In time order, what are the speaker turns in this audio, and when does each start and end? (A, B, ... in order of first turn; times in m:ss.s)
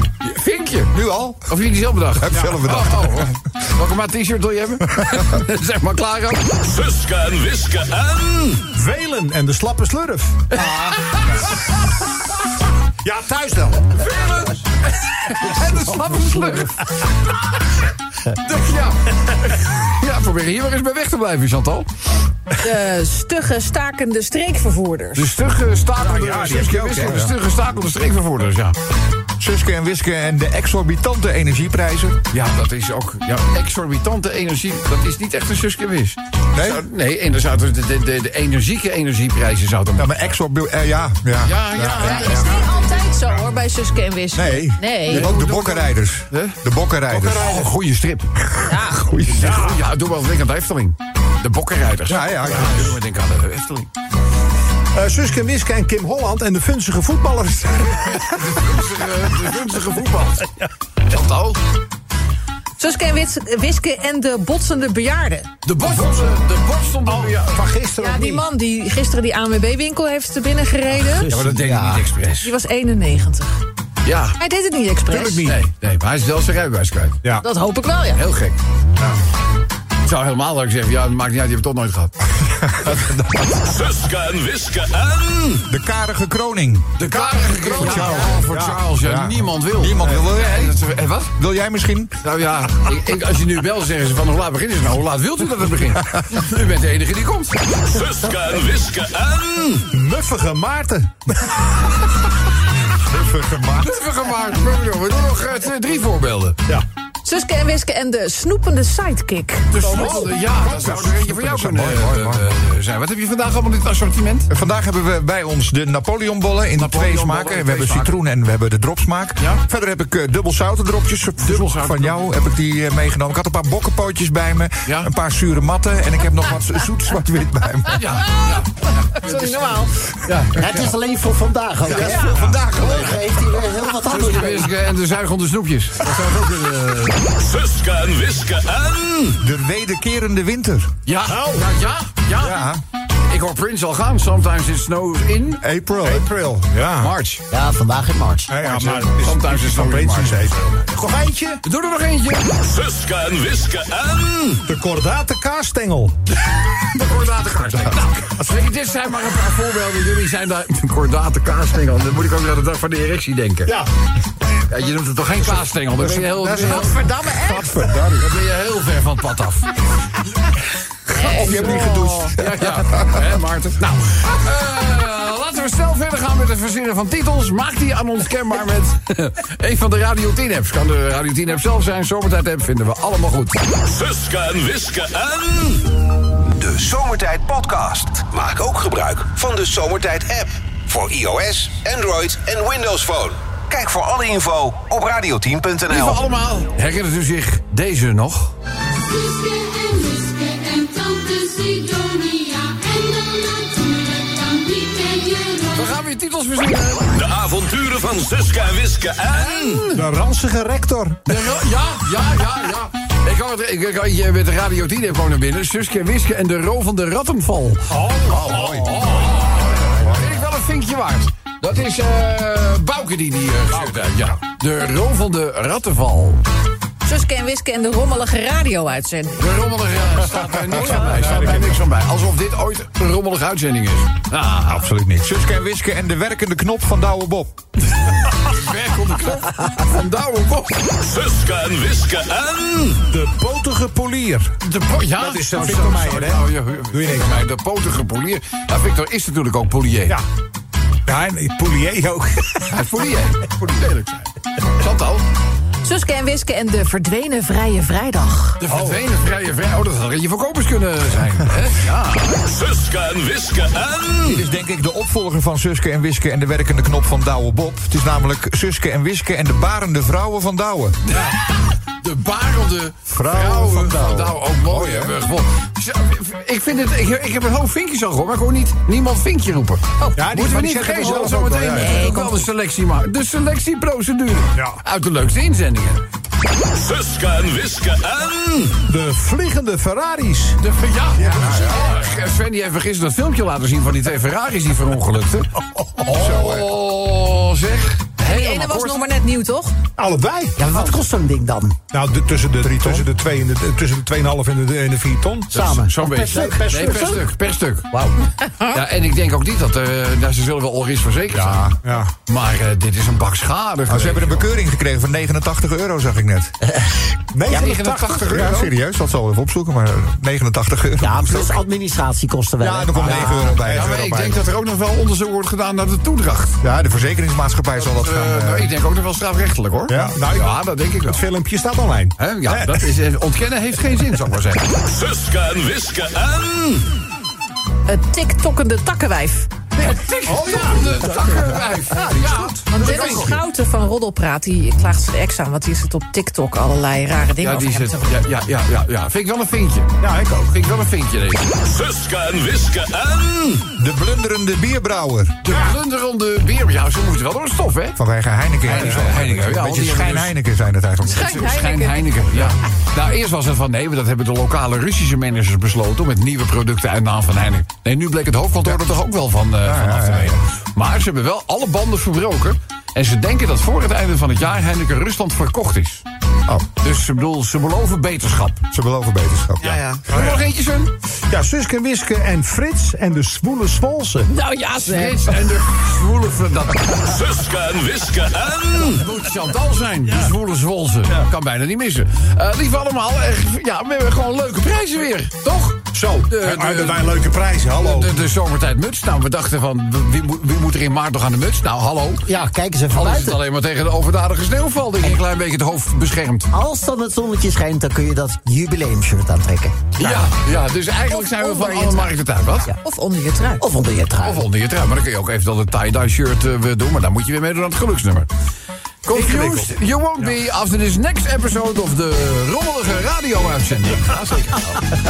0:00.2-0:00.9 A
0:00.9-0:01.5 B
0:01.5-0:06.5 A
0:02.2-0:03.4 B
0:02.3-0:02.6 C
0:06.5-0:08.6 D
0:08.7-0:11.0 C
0:10.5-0:11.5 A
0:13.0-0:13.9 C
0:14.0-0:17.0 A
0:15.6-0:16.6 C
0:18.3-0:21.9 A
0:22.6-0:25.3 E
0:25.1-0:28.8 A
0:26.0-0:27.3 C
0:26.2-0:27.3 B
0:29.4-0:32.2 B
0:32.3-0:40.1 A
0:36.5-0:36.8 B
0:40.0-0:42.5 B
0:41.4-0:42.7 A
0:42.0-0:45.3 E
0:44.3-0:47.5 B
0:45.1-0:46.6 A
0:47.1-0:47.7 C
0:47.3-0:48.3 A
0:48.6-0:49.1 E
0:49.2-0:53.9 A
0:49.4-0:49.8 C
0:52.1-0:53.0 B
0:52.6-0:52.9 C
0:54.9-0:58.5 C
0:58.0-1:00.5 A
1:01.1-1:01.6 A
1:02.8-1:05.5 E
1:05.6-1:07.6 A
1:05.9-1:06.3 C
1:07.0-1:08.4 C
1:08.0-1:11.3 E
1:11.1-1:12.0 F
1:11.3-1:12.5 A
1:12.4-1:13.5 E
1:14.0-1:14.4 A
1:14.4-1:15.5 E
1:15.0-1:15.6 C
1:15.1-1:17.2 A
1:17.4-1:18.2 E
1:18.1-1:18.6 A
1:20.0-1:22.1 A
1:22.6-1:23.7 B
1:23.5-1:25.7 D
1:25.7-1:27.0 B
1:27.0-1:31.3 A
1:27.1-1:28.8 C
1:27.7-1:30.8 B
1:31.4-1:32.1 B
1:32.2-1:37.6 A
1:37.7-1:39.9 D
1:39.9-1:41.8 C
1:42.8-1:44.0 B
1:43.8-1:46.6 A
1:47.2-1:50.2 E
1:49.7-1:54.5 A
1:49.8-1:50.3 C
1:50.5-1:52.5 B
1:54.5-2:08.2 B
1:56.8-1:58.1 A
2:01.4-2:02.2 A
2:07.9-2:10.8 A
2:09.1-2:10.1 E
2:10.5-2:14.7 F
2:11.9-2:13.3 B
2:11.9-2:12.6 C
2:14.1-2:17.2 A
2:17.2-2:19.4 D
2:19.4-2:20.9 B
2:21.0-2:22.6 A
2:21.2-2:21.7 C
2:22.4-2:22.8 B
2:23.3-2:25.6 A
2:25.6-2:26.3 B
2:26.0-2:27.1 C
2:27.0-2:27.4 A
2:27.5-2:28.5 F
2:28.5-2:31.6 C
2:28.6-2:30.8 A
2:31.6-2:32.5 A
2:32.5-2:34.6 D
2:34.6-2:36.2 C
2:36.8-2:43.8 A
2:44.7-2:47.0 A
2:45.5-2:48.2 C
2:46.4-2:47.9 E
2:48.2-2:49.7 A
2:51.1-2:52.3 E
2:51.2-2:53.2 B
2:52.4-3:03.6 A
3:03.7-3:05.9 D
3:06.4-3:16.2 G
3:15.9-3:18.5 A
3:19.0-3:25.9 H
3:25.7-3:27.1 A
3:27.1-3:29.8 D
3:29.3-3:30.0 A
3:29.9-3:31.4 C
3:31.2-3:46.4 A
3:37.9-3:39.3 C
3:38.4-3:39.0 B
3:43.8-3:44.1 C
3:47.0-3:49.5 E
3:49.4-3:54.8 A
3:50.8-3:51.8 C
3:54.6-3:57.5 B
3:58.4-4:00.7 A
4:00.8-4:03.0 D
4:03.1-4:04.6 C
4:04.6-4:10.2 A
4:05.2-4:07.5 C
4:11.0-4:12.7 C
4:12.7-4:15.2 A
4:15.8-4:18.6 E
4:18.6-4:22.4 A
4:18.6-4:19.0 C
4:22.2-4:24.4 D
4:24.2-4:31.0 B
4:31.0-4:46.0 A
4:33.1-4:35.2 B
4:40.0-4:40.3 E
4:40.2-4:42.1 C
4:41.8-4:42.5 E
4:46.5-4:48.8 D
4:48.9-4:50.6 C
4:50.6-4:59.0 A
4:51.2-4:52.0 B
4:51.3-4:51.6 C
4:55.8-4:56.0 C
4:56.1-4:56.7 B
4:58.2-4:59.8 E
5:00.0-5:00.9 C
5:00.6-5:01.8 F
5:01.9-5:07.2 C
5:02.6-5:03.0 B
5:05.5-5:07.2 F
5:05.5-5:07.9 A
5:08.4-5:08.7 E
5:08.7-5:11.7 A
5:11.3-5:11.8 B
5:11.8-5:12.1 C
5:12.2-5:14.5 A
5:13.9-5:16.5 B
5:16.6-5:17.0 F
5:17.3-5:18.7 C
5:17.4-5:18.7 A
5:18.3-5:21.6 B
5:21.0-5:23.4 F
5:22.6-5:24.4 B
5:22.6-5:24.0 C
5:23.5-5:26.6 A
5:26.6-5:28.7 B
5:27.8-5:31.2 A
5:29.9-5:32.9 C
5:32.2-5:34.7 A
5:34.7-5:36.9 D
5:37.9-5:39.5 E
5:39.8-5:43.4 A
5:40.2-5:43.4 C
5:42.7-5:48.1 E
5:47.4-5:51.6 A
5:50.0-5:50.6 C
5:51.6-5:53.7 D
5:53.8-5:55.4 B
5:55.4-5:58.0 A
5:55.5-5:55.8 C
5:58.0-6:01.4 B
5:58.6-6:00.4 A
5:58.7-5:59.0 C
6:01.0-6:02.2 E
6:01.1-6:16.0 A
6:08.6-6:08.9 B
6:09.6-6:10.4 B
6:16.8-6:18.6 A
6:18.7-6:20.0 B
6:19.6-6:20.0 E
6:20.1-6:20.9 A
6:20.1-6:20.4 C
6:21.3-6:24.3 C
6:24.3-6:25.4 E
6:24.8-6:27.1 A
6:26.8-6:29.0 D
6:28.9-6:37.1 A
6:35.9-6:38.2 C
6:37.8-6:42.3 A
6:42.2-6:43.4 F
6:42.9-6:46.5 A
6:46.5-6:50.2 F
6:50.0-6:52.7 A
6:51.1-6:52.2 E
6:52.7-6:53.6 E
6:53.6-6:54.4 F
6:54.2-6:58.3 A
6:59.0-7:04.8 A
6:59.1-6:59.7 C